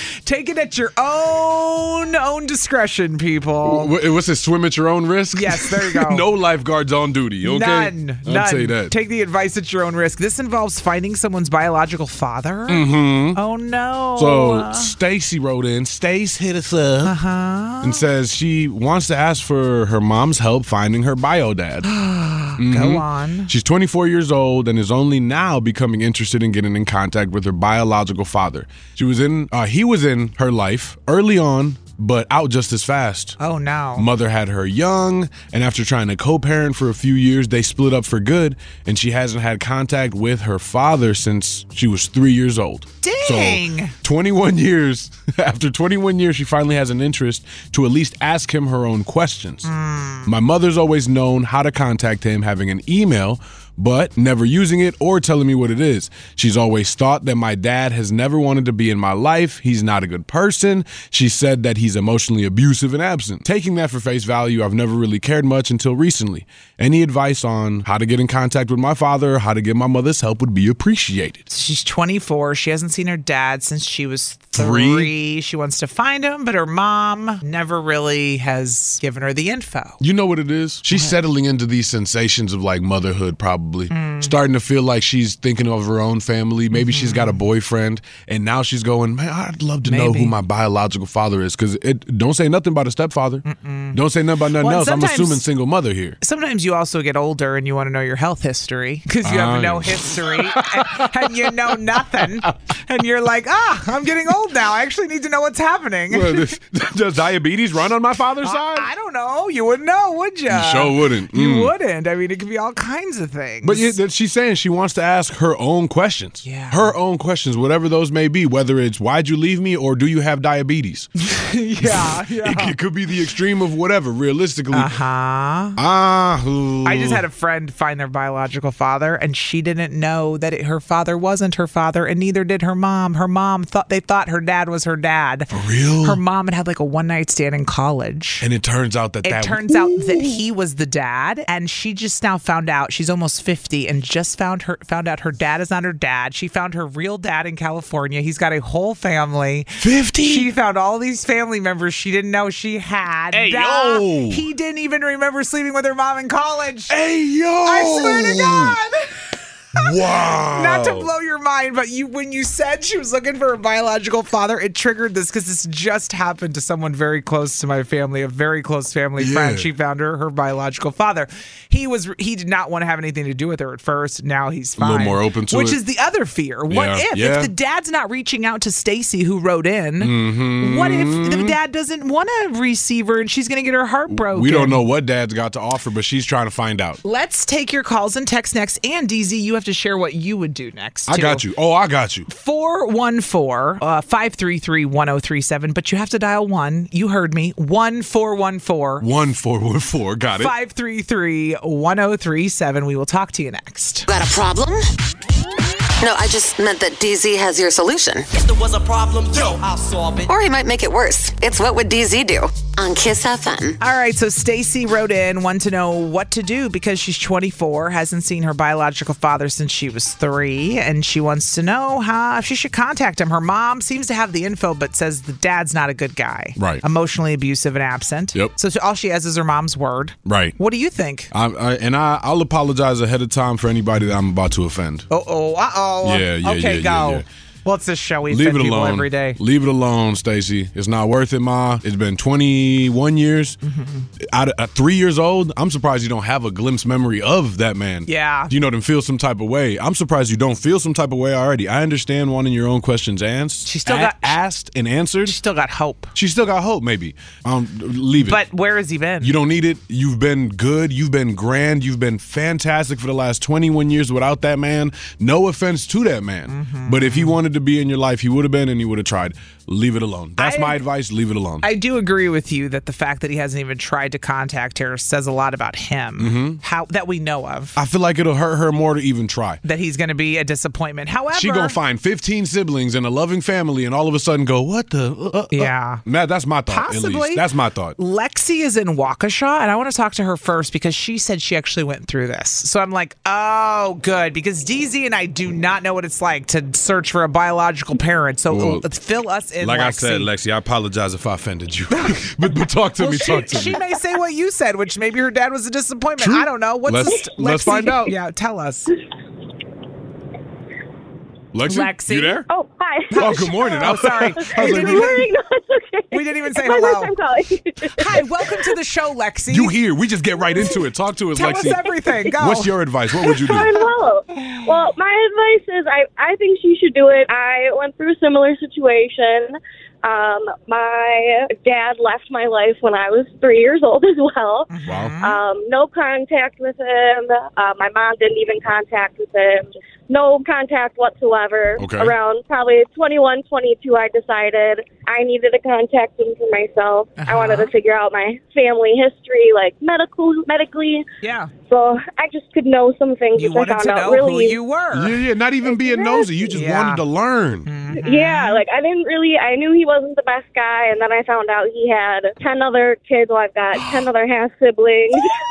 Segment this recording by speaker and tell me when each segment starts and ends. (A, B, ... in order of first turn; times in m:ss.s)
0:00.2-0:03.9 A
0:03.6-0:09.0 B
0:05.3-0:06.3 A
0:07.4-0:14.9 A
0:12.7-0:13.4 B
0:14.2-0:17.1 B
0:17.0-0:18.0 A
0:17.8-0:21.9 B
0:21.8-0:23.5 A
0:22.6-0:33.4 B
0:33.4-0:34.1 A
0:34.0-0:49.7 B
0:43.0-0:44.0 A
0:49.6-0:50.3 A
0:50.3-1:11.4 B
1:11.5-1:20.0 A
1:14.6-1:15.1 B
1:20.0-1:36.2 B
1:23.9-1:24.4 A
1:26.7-1:27.4 A
1:29.8-1:30.4 A
1:33.4-1:34.0 A
1:34.6-1:35.4 A
1:36.2-1:46.6 A
1:39.2-1:42.5 B
1:46.1-1:48.9 B
1:48.4-1:54.0 A
1:50.5-1:51.7 B
1:53.6-2:01.1 B
1:56.4-1:57.0 A
2:01.2-2:02.8 A
2:01.8-2:04.9 B
2:04.7-2:05.8 A
2:05.8-2:07.2 B
2:06.8-2:15.5 A
2:15.5-2:16.2 B
2:16.0-2:18.5 A
2:18.4-2:20.4 B
2:19.2-2:37.0 A
2:29.8-2:30.5 B
2:33.3-2:34.4 B
2:36.9-2:38.8 B
2:37.6-2:39.0 A
2:39.7-2:41.1 B
2:39.8-3:04.8 A
2:49.2-2:49.7 B
2:54.8-2:55.8 B
2:56.7-2:57.5 B
3:00.0-3:01.6 B
3:04.1-3:07.0 B
3:07.0-3:11.4 A
3:11.1-3:12.3 B
3:12.3-3:19.1 A
3:19.0-3:20.5 B
3:20.4-3:24.1 A
3:24.1-3:24.8 C
3:26.0-3:28.2 C
3:28.3-3:30.3 D
3:30.3-3:33.8 C
3:33.8-3:51.3 A
3:46.6-3:46.8 B
3:50.3-3:50.6 B
3:51.3-3:55.1 B
3:55.1-3:59.4 A
3:56.0-3:57.2 B
3:58.3-4:03.6 B
4:03.6-4:04.1 A
4:04.2-4:15.4 B
4:08.1-4:08.5 A
4:13.6-4:14.4 A
4:15.2-4:16.1 A
4:16.2-4:18.4 B
4:18.2-4:19.4 A
4:19.2-4:31.7 B
4:26.5-4:27.4 A
4:30.4-4:30.8 A
4:31.6-4:37.8 A
4:36.2-4:36.6 B
4:37.8-4:39.6 B
4:39.6-4:41.8 A
4:41.3-4:48.0 B
4:45.5-4:46.0 A
4:46.7-4:47.4 A
4:48.0-5:00.3 A
4:58.5-4:58.9 B
4:59.6-5:03.8 B
5:01.9-5:02.3 A
5:03.0-5:09.0 A
5:06.2-5:08.2 B
5:11.5-5:12.5 B
5:11.7-5:12.4 A
5:12.6-5:13.0 E
5:13.1-5:15.3 A
5:13.1-5:15.3 B
5:14.6-5:15.1 E
5:16.1-5:17.2 A
5:16.6-5:17.4 E
5:18.0-5:19.8 A
5:19.5-5:21.8 B
5:21.3-5:22.8 A
5:22.4-5:23.7 B
5:23.5-5:29.4 E
5:30.1-5:34.6 E
5:34.7-5:35.4 A
5:34.9-5:35.2 B
5:35.2-5:39.6 E
5:40.1-5:50.9 E
5:41.8-5:42.1 B
5:47.2-5:47.7 A
5:51.2-5:51.5 A
5:51.8-5:54.5 E
5:53.4-5:55.2 A
5:54.9-5:57.7 B
5:55.9-5:56.3 E
5:56.5-5:57.0 A
5:57.6-5:58.6 A
5:58.0-6:05.0 E